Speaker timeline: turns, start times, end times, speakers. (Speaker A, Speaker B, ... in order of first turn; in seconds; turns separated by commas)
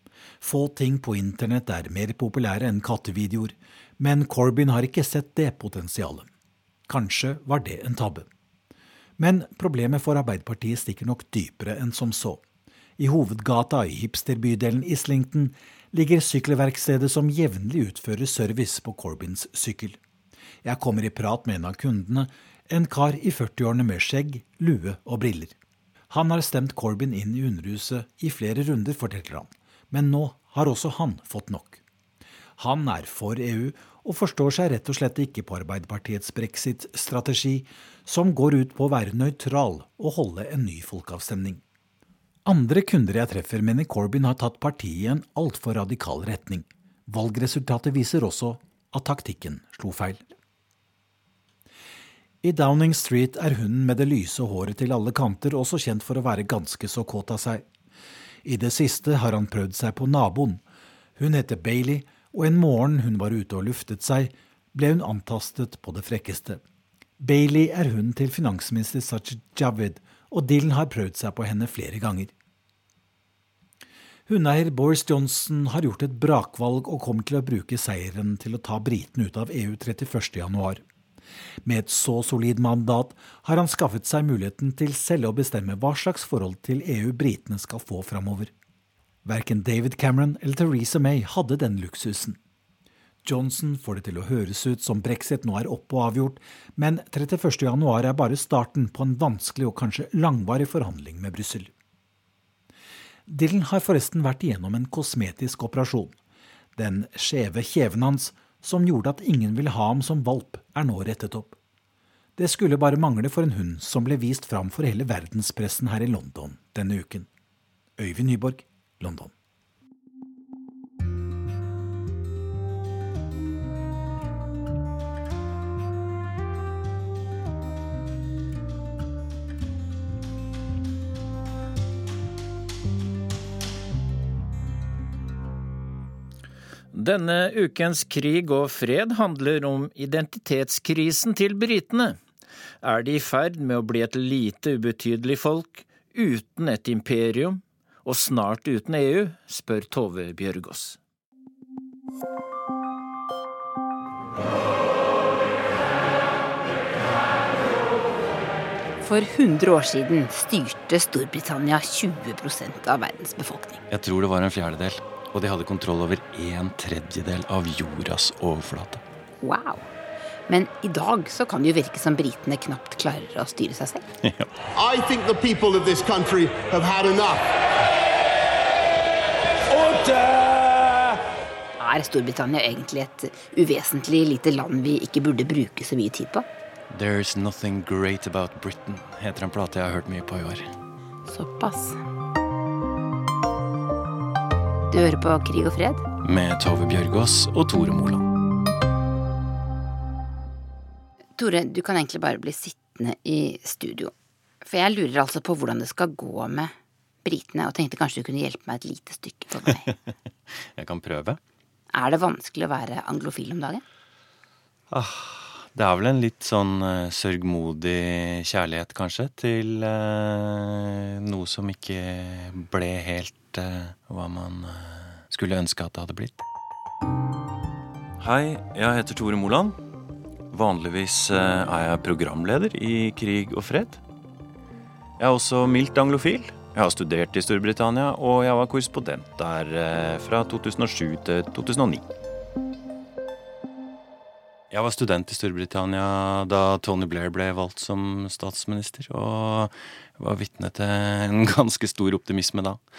Speaker A: 0.4-6.3, Speaker A: 6.9-8.3, Speaker A: 9.2-12.4, Speaker A: 13.0-20.0, Speaker A: 20.6-25.6, Speaker A: 26.1-31.8, Speaker A: 32.6-41.6, Speaker A: 42.4-50.2, Speaker A: 52.4-57.6, Speaker A: 58.4-60.6, Speaker A: 61.2-66.6, Speaker A: 67.2-72.3, Speaker A: 74.3-80.8, Speaker A: 81.6-88.5, Speaker A: 89.2-92.4, Speaker A: 93.2-101.7, Speaker A: 103.3-106.1, Speaker A: 106.8-111.5, Speaker A: 112.4-117.3, Speaker A: 118.0-119.3, Speaker B: 136.9-142.2, Speaker B: 142.8-151.0, Speaker C: 159.0-163.8, Speaker D: 163.9-169.0, Speaker C: 169.4-169.9, Speaker C: 170.5-174.0, Speaker D: 174.2-174.5, Speaker E: 174.8-177.4, Speaker C: 181.8-186.4, Speaker D: 186.9-190.7, Speaker C: 191.2-192.0, Speaker C: 194.9-196.0, Speaker D: 196.2-198.2, Speaker C: 201.4-209.9, Speaker D: 210.7-211.4, Speaker C: 211.9-213.8, Speaker D: 214.9-226.4, Speaker D: 228.2-229.8, Speaker D: 230.5-234.0, Speaker D: 235.2-242.1, Speaker D: 244.7-252.8